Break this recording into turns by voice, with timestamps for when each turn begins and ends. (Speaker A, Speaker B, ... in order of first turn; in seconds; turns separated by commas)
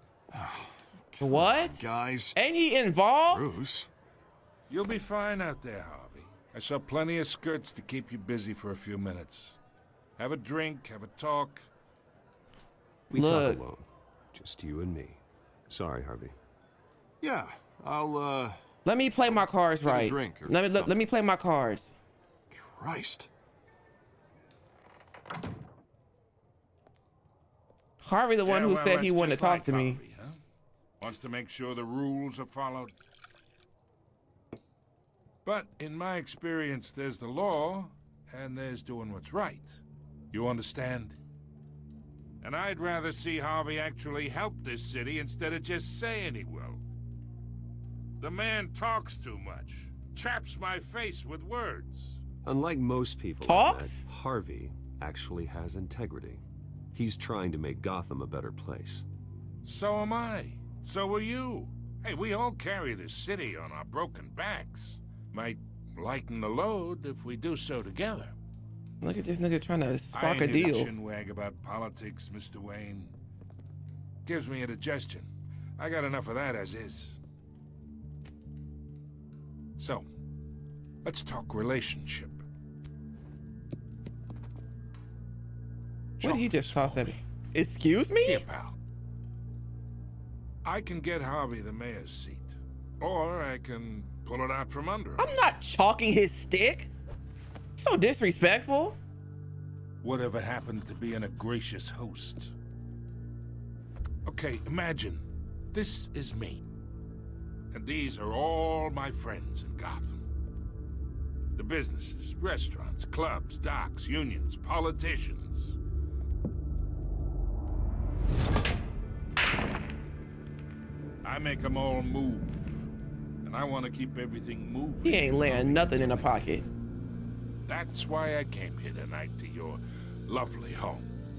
Speaker A: 0.3-2.4, Speaker B: 1.2-1.8, Speaker B: 2.4-3.5, Speaker A: 3.3-3.9, Speaker C: 4.7-9.6, Speaker C: 10.2-11.7, Speaker D: 13.1-16.4, Speaker B: 13.1-13.6, Speaker A: 17.2-18.6, Speaker B: 18.8-21.9, Speaker A: 19.2-21.0, Speaker A: 22.5-23.3, Speaker B: 28.0-30.0, Speaker C: 28.4-30.4, Speaker C: 31.0-32.9, Speaker C: 35.4-41.2, Speaker C: 42.4-46.8, Speaker C: 48.2-52.2, Speaker D: 52.4-56.4, Speaker B: 53.4-54.0, Speaker D: 56.9-59.0, Speaker C: 59.6-68.3, Speaker B: 69.0-70.9, Speaker C: 70.1-73.1, Speaker C: 74.2-77.2, Speaker C: 79.8-80.1, Speaker C: 81.0-82.4, Speaker C: 86.2-87.2, Speaker B: 86.2-88.4, Speaker C: 88.2-88.8, Speaker C: 90.6-95.3, Speaker B: 95.2-96.9, Speaker B: 97.8-99.0, Speaker C: 100.0-102.5, Speaker C: 104.2-106.6, Speaker C: 107.7-110.2, Speaker C: 111.5-115.8, Speaker C: 121.2-122.8, Speaker C: 123.4-126.6, Speaker B: 125.0-126.7, Speaker C: 127.7-131.1